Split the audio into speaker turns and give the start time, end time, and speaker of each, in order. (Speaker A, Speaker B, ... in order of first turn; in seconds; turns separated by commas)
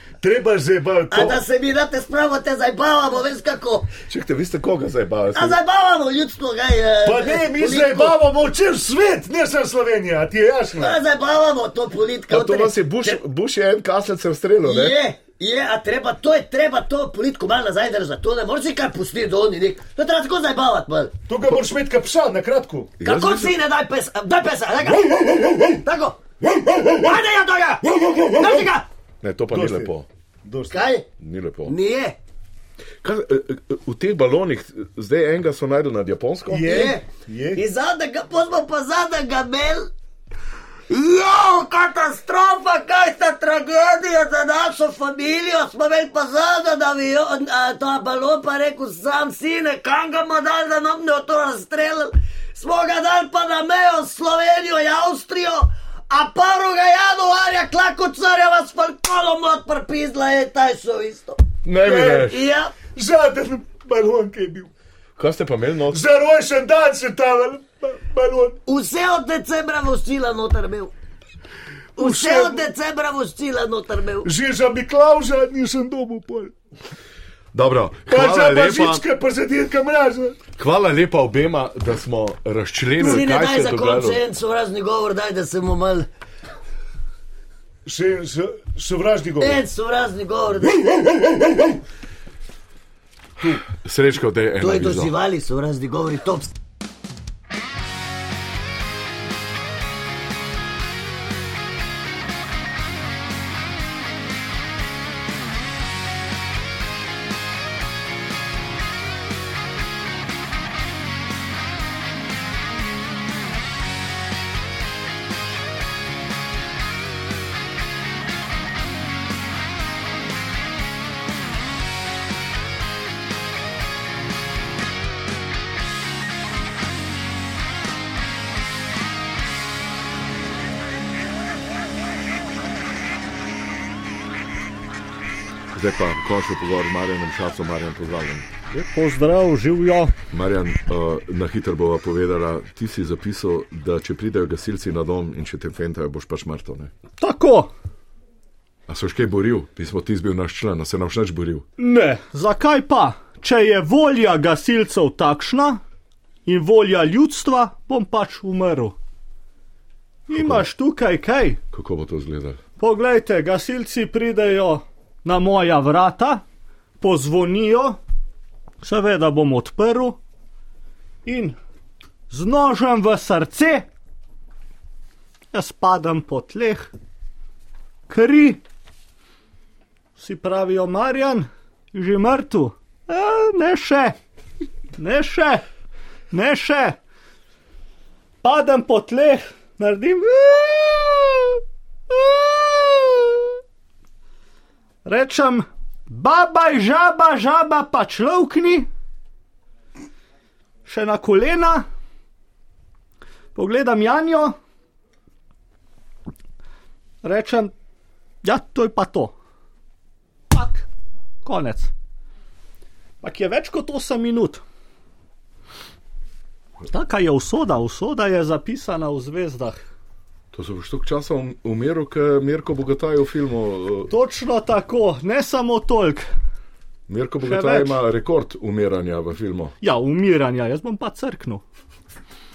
Speaker A: 0.2-1.4, Speaker B: 1.1-3.9, Speaker C: 4.1-5.6, Speaker B: 5.3-8.2, Speaker A: 7.0-11.0, Speaker B: 10.8-13.2, Speaker C: 12.3-15.0, Speaker B: 14.6-21.1, Speaker A: 21.3-22.9, Speaker C: 23.0-23.5, Speaker B: 23.0-28.9, Speaker C: 29.2-30.1, Speaker A: 29.5-29.9, Speaker A: 30.4-30.9, Speaker B: 30.7-31.1, Speaker C: 31.2-31.7, Speaker B: 31.7-32.2, Speaker C: 33.0-36.7, Speaker A: 36.5-37.6, Speaker B: 36.6-37.0, Speaker B: 37.5-39.9, Speaker B: 40.9-61.4, Speaker C: 61.6-62.4, Speaker A: 61.8-62.3, Speaker B: 62.3-62.7, Speaker A: 62.9-64.7, Speaker C: 65.2-66.0, Speaker A: 65.9-68.6, Speaker B: 68.7-70.9, Speaker A: 72.0-72.7, Speaker B: 72.0-74.3, Speaker A: 74.2-76.5, Speaker C: 77.5-79.0, Speaker A: 78.1-80.4, Speaker C: 80.6-84.2, Speaker B: 83.0-86.1, Speaker A: 87.9-89.6, Speaker B: 89.4-91.4, Speaker C: 93.8-95.1, Speaker B: 94.6-96.5, Speaker C: 135.7-138.5, Speaker D: 138.7-140.1, Speaker C: 140.3-146.9, Speaker D: 147.2-147.7, Speaker C: 148.9-151.6, Speaker D: 151.8-155.8, Speaker D: 156.4-159.0, Speaker D: 160.3-161.6, Speaker C: 160.3-160.6, Speaker C: 161.7-162.6, Speaker D: 162.8-166.4, Speaker D: 167.0-168.0, Speaker D: 168.8-170.2, Speaker D: 171.2-171.6, Speaker D: 172.3-173.9, Speaker D: 175.5-176.9, Speaker D: 178.1-178.6, Speaker D: 180.2-184.2, Speaker D: 185.0-185.6, Speaker D: 186.3-187.0, Speaker D: 188.4-191.6, Speaker D: 192.1-193.3, Speaker D: 195.1-198.9, Speaker D: 200.9-201.9, Speaker D: 203.6-204.6, Speaker D: 207.2-207.7, Speaker D: 208.4-209.3, Speaker D: 210.5-210.9, Speaker D: 211.4-211.9, Speaker D: 213.2-214.6, Speaker D: 216.9-219.8, Speaker C: 220.5-224.1, Speaker D: 224.1-226.3, Speaker C: 227.1-229.7, Speaker D: 227.4-228.0, Speaker D: 229.8-231.6